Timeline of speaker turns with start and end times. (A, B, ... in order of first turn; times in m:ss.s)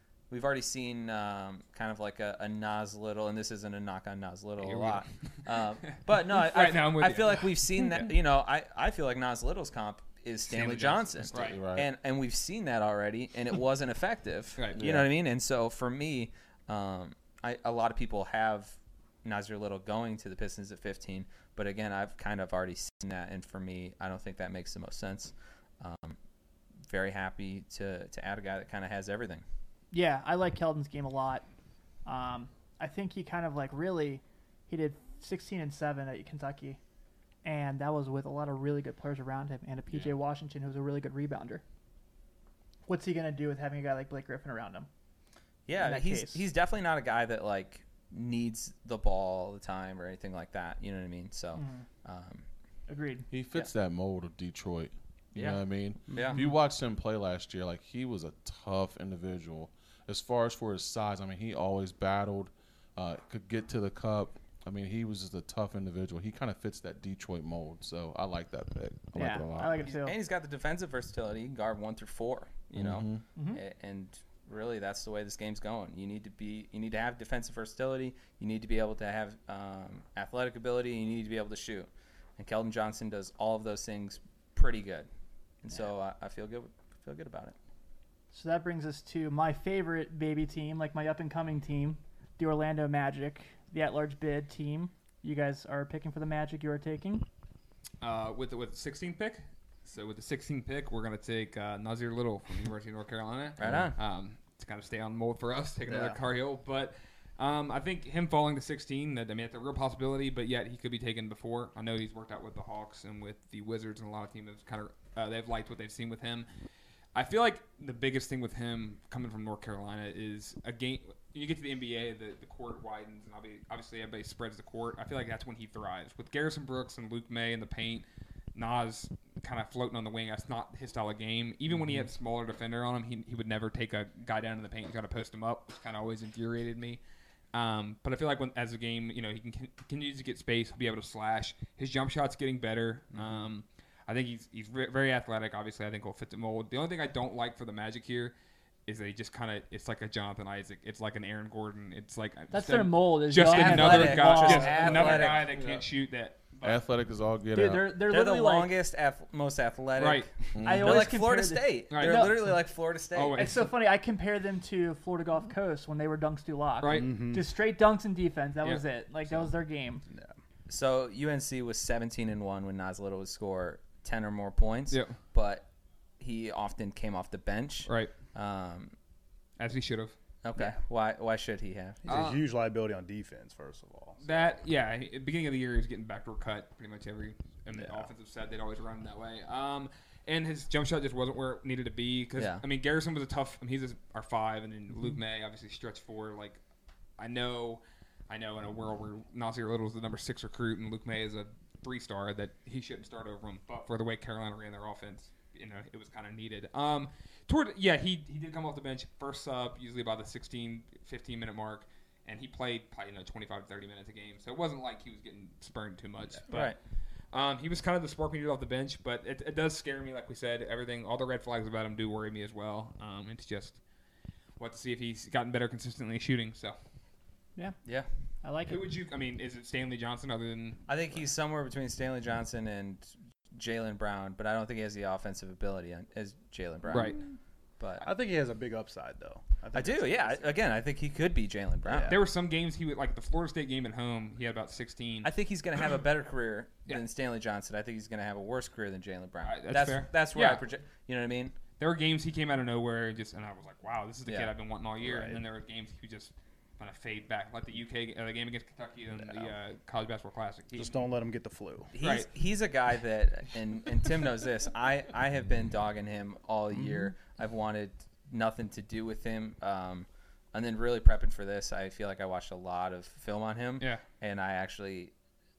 0:00.3-0:26.2 A
0:04.6-0:08.1 B
0:10.5-0:11.6 B
0:11.2-0:11.9 C
0:14.8-0:15.1 C
0:26.9-0:29.4 A
0:29.9-0:31.4 D
0:32.0-0:36.8 D
0:37.4-0:41.6 D
0:42.9-0:44.9 D
0:45.6-0:52.4 A
0:45.7-0:46.4 D
0:51.5-0:51.8 D
0:52.9-0:53.3 D
0:53.3-1:09.8 C
0:55.3-0:56.4 A
0:56.1-0:56.4 E
1:09.1-1:10.1 D
1:09.8-1:25.1 A
1:12.7-1:13.2 C
1:13.4-1:13.6 D
1:25.6-1:27.5 A
1:28.3-1:37.2 D
1:38.0-1:56.5 B
1:43.6-1:44.0 A
1:43.6-1:43.9 C
1:57.1-2:17.0 B
2:17.5-2:28.3 B
2:23.1-2:23.4 E
2:28.8-2:36.8 B
2:32.5-2:35.4 D
2:33.4-2:35.5 A
2:35.5-2:35.9 C
2:36.6-2:38.0 C
2:37.5-2:38.7 D
2:38.0-2:43.4 A
2:40.0-2:40.3 B
2:40.5-2:41.1 C
2:40.6-2:42.4 D
2:41.9-2:42.6 B
2:43.1-2:43.7 B
2:43.3-2:50.0 D
2:46.8-2:47.3 B
2:46.8-2:47.5 E
2:50.1-2:50.4 E
2:50.7-2:55.7 A
2:54.9-2:55.2 B
2:56.2-2:58.9 A
2:57.9-2:58.1 B
2:59.6-3:00.2 B
3:00.4-3:02.2 A
3:02.0-3:04.5 E
3:02.1-3:02.4 B
3:04.2-3:16.6 B
3:07.7-3:08.1 E
3:12.4-3:12.6 A
3:17.2-3:36.7 B
3:36.5-3:36.8 A
3:37.3-3:43.8 B
3:44.6-3:46.8 B
3:48.4-3:48.8 D
3:48.7-3:51.2 B
3:50.9-3:57.2 A
3:56.9-3:57.3 E
3:56.9-3:57.2 B
3:57.8-3:58.0 A
3:58.0-4:00.5 E
3:59.7-4:02.1 A
4:01.8-4:02.2 E
4:02.1-4:05.3 B
4:05.2-4:11.5 A
4:09.4-4:10.6 B
4:11.8-4:21.1 B
4:14.2-4:14.5 A
4:15.0-4:15.4 E
4:19.1-4:19.5 E
4:20.7-4:21.9 E
4:21.9-4:35.1 A
4:22.0-4:22.3 B
4:26.7-4:27.1 E